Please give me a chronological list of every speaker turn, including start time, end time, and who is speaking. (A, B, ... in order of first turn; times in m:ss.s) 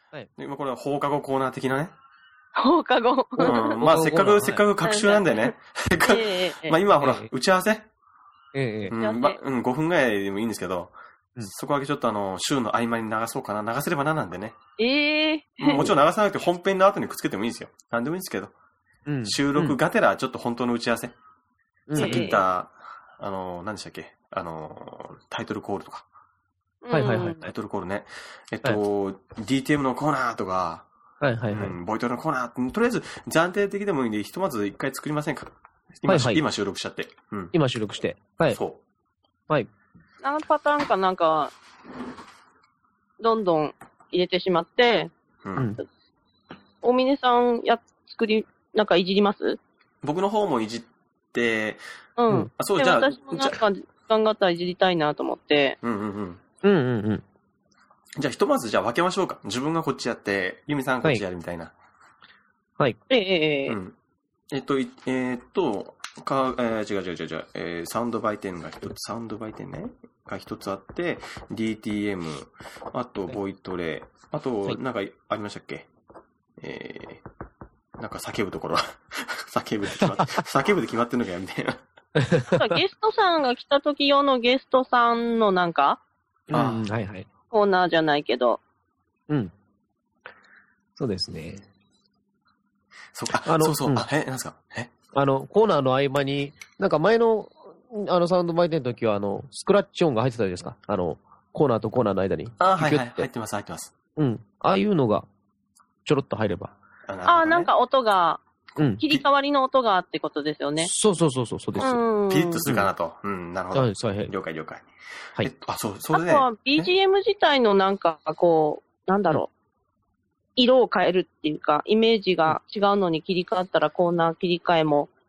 0:00.4-0:01.9 A
0:02.6-0:03.8 B
0:03.4-0:07.9 A
0:03.4-0:04.6 C
0:04.8-0:06.8 B
0:07.0-0:07.3 C
0:08.5-0:08.9 C
0:08.9-0:14.6 A
0:09.0-0:09.4 B
0:14.8-0:15.9 B
0:15.6-0:18.5 A
0:19.1-0:19.8 C
0:19.2-0:21.2 A
0:21.9-0:22.3 C
0:22.0-0:22.4 B
0:22.0-0:26.1 A
0:26.8-0:27.4 B
0:26.9-0:27.5 C
0:27.2-0:30.9 A
0:31.2-0:31.8 C
0:31.5-0:37.6 A
0:36.1-0:36.4 C
0:37.5-0:38.6 C
0:38.5-0:38.8 A
0:40.2-0:41.5 B
0:43.2-0:45.1 B
0:45.4-0:45.7 A
0:45.6-0:45.8 C
0:46.8-0:49.6 B
0:50.0-0:51.8 A
0:52.2-0:55.8 B
0:52.6-0:53.6 A
0:55.8-0:56.4 A
0:56.6-0:57.2 C
0:58.2-1:01.7 A
1:03.1-1:03.8 B
1:03.7-1:04.0 A
1:04.5-1:15.9 A
1:16.6-1:17.2 A
1:18.0-1:21.8 A
1:20.0-1:20.4 C
1:22.2-1:22.8 C
1:22.5-1:26.0 B
1:26.5-1:27.3 C
1:26.5-1:26.9 A
1:27.5-1:28.6 B
1:31.0-1:31.6 C
1:33.1-1:34.9 A
1:33.4-1:34.1 C
1:35.1-1:43.3 C
1:42.6-1:43.9 A
1:44.2-1:45.3 C
1:46.0-1:46.7 C
1:47.1-1:47.7 A
1:47.2-1:48.4 B
1:48.8-1:49.3 A
1:49.0-1:50.9 B
1:50.8-1:52.0 C
1:51.8-1:56.9 A
1:51.8-1:52.7 B
1:52.7-1:52.9 C
1:53.7-1:54.3 C
1:56.1-1:59.5 B
2:00.6-2:05.1 B